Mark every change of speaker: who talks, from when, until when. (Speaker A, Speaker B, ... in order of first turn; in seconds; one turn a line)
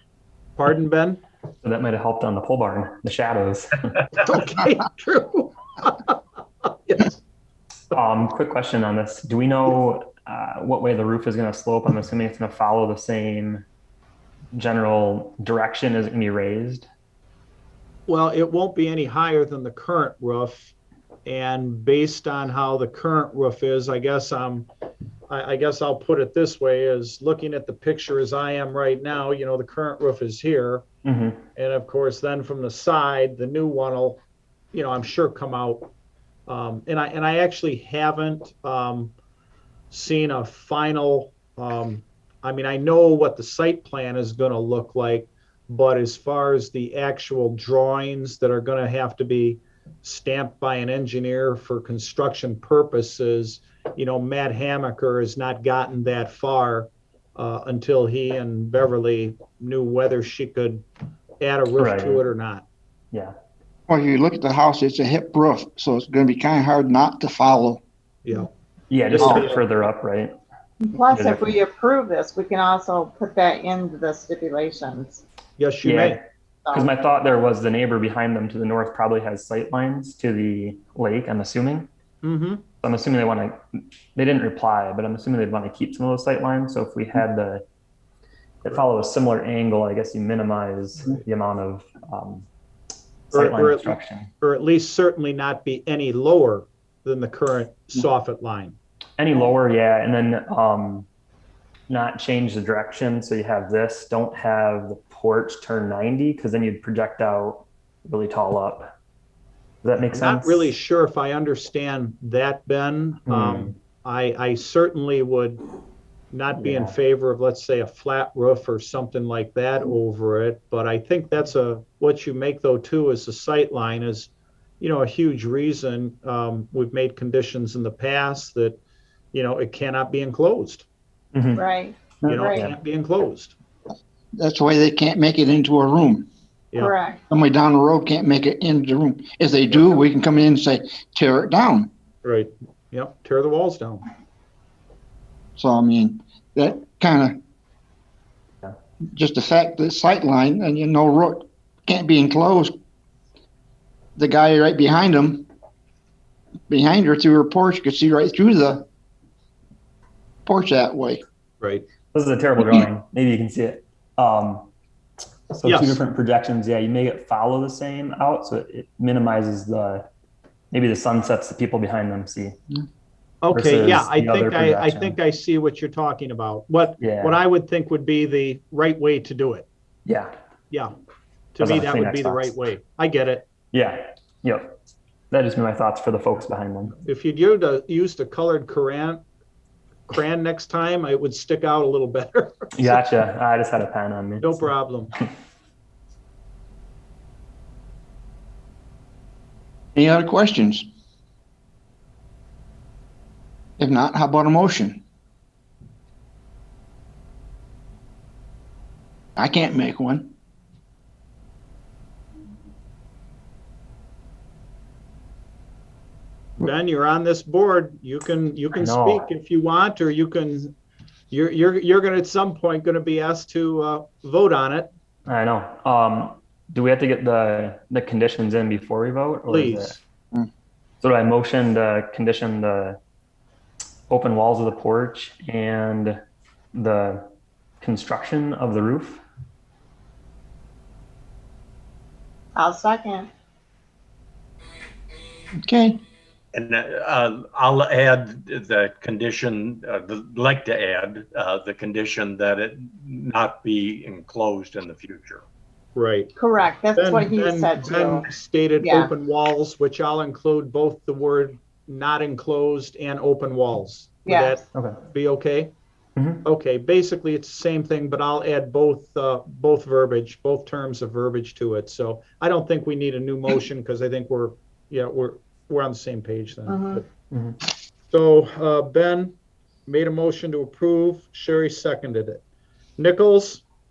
Speaker A: 0.6-1.2
Speaker B: 1.6-4.0
Speaker A: 4.2-7.2
Speaker B: 7.9-13.7
Speaker B: 14.5-16.9
Speaker A: 18.1-20.7
Speaker A: 21.3-24.7
Speaker A: 25.3-30.9
Speaker B: 31.1-31.4
Speaker A: 31.6-34.2
Speaker A: 34.7-35.9
Speaker A: 36.5-39.1
Speaker A: 39.9-60.8
Speaker A: 61.4-62.6
Speaker B: 61.8-62.2
Speaker C: 63.9-67.8
Speaker A: 68.2-68.5
Speaker B: 68.9-70.3
Speaker A: 69.0-69.7
Speaker C: 69.2-69.5
Speaker D: 70.8-75.2
Speaker B: 71.1-71.5
Speaker A: 75.6-76.2
Speaker B: 75.8-81.9
Speaker A: 82.2-82.7
Speaker B: 82.8-83.6
Speaker B: 84.2-87.6
Speaker B: 88.6-92.5
Speaker B: 93.3-94.3
Speaker A: 93.3-98.8
Speaker B: 99.2-101.1
Speaker B: 101.9-108.9
Speaker B: 109.8-110.8
Speaker A: 110.1-115.6
Speaker B: 113.3-113.8
Speaker A: 116.3-128.8
Speaker B: 116.6-117.0
Speaker A: 129.3-130.8
Speaker B: 131.3-131.7
Speaker D: 131.6-132.7
Speaker B: 132.2-132.8
Speaker A: 132.3-133.5
Speaker C: 134.4-136.3
Speaker D: 136.8-137.2
Speaker C: 137.3-141.9
Speaker A: 139.7-140.0
Speaker A: 142.2-144.1
Speaker C: 145.6-147.4
Speaker C: 149.1-152.8
Speaker C: 154.2-155.5
Speaker C: 156.7-158.9
Speaker C: 160.5-161.2
Speaker B: 162.1-164.7
Speaker B: 165.5-170.1
Speaker A: 165.6-166.0
Speaker B: 170.7-172.6
Speaker A: 173.4-179.7
Speaker B: 173.5-175.2
Speaker B: 177.0-177.4
Speaker B: 180.1-180.3
Speaker A: 181.6-183.5
Speaker B: 181.6-182.6
Speaker B: 183.7-184.8
Speaker B: 185.3-187.0
Speaker A: 186.9-189.2
Speaker A: 190.1-193.2
Speaker B: 192.8-194.6
Speaker A: 194.4-195.1
Speaker C: 199.9-200.9
Speaker C: 203.8-205.0
Speaker C: 209.4-210.3
Speaker A: 216.6-220.7
Speaker B: 218.7-219.3
Speaker A: 221.3-224.9
Speaker B: 225.3-230.0
Speaker A: 229.5-230.0
Speaker B: 231.0-233.0
Speaker B: 234.1-236.2
Speaker B: 236.7-237.3
Speaker B: 237.8-239.2
Speaker D: 242.6-243.3
Speaker C: 245.6-246.0
Speaker E: 246.5-255.4
Speaker A: 255.9-256.3
Speaker D: 256.4-259.1
Speaker A: 257.0-265.7
Speaker D: 264.3-264.6
Speaker B: 264.7-265.0
Speaker B: 266.2-266.5
Speaker A: 266.4-277.1
Speaker D: 276.7-277.0
Speaker B: 277.3-277.6
Speaker A: 278.1-279.3
Speaker A: 279.9-282.4
Speaker A: 283.0-283.6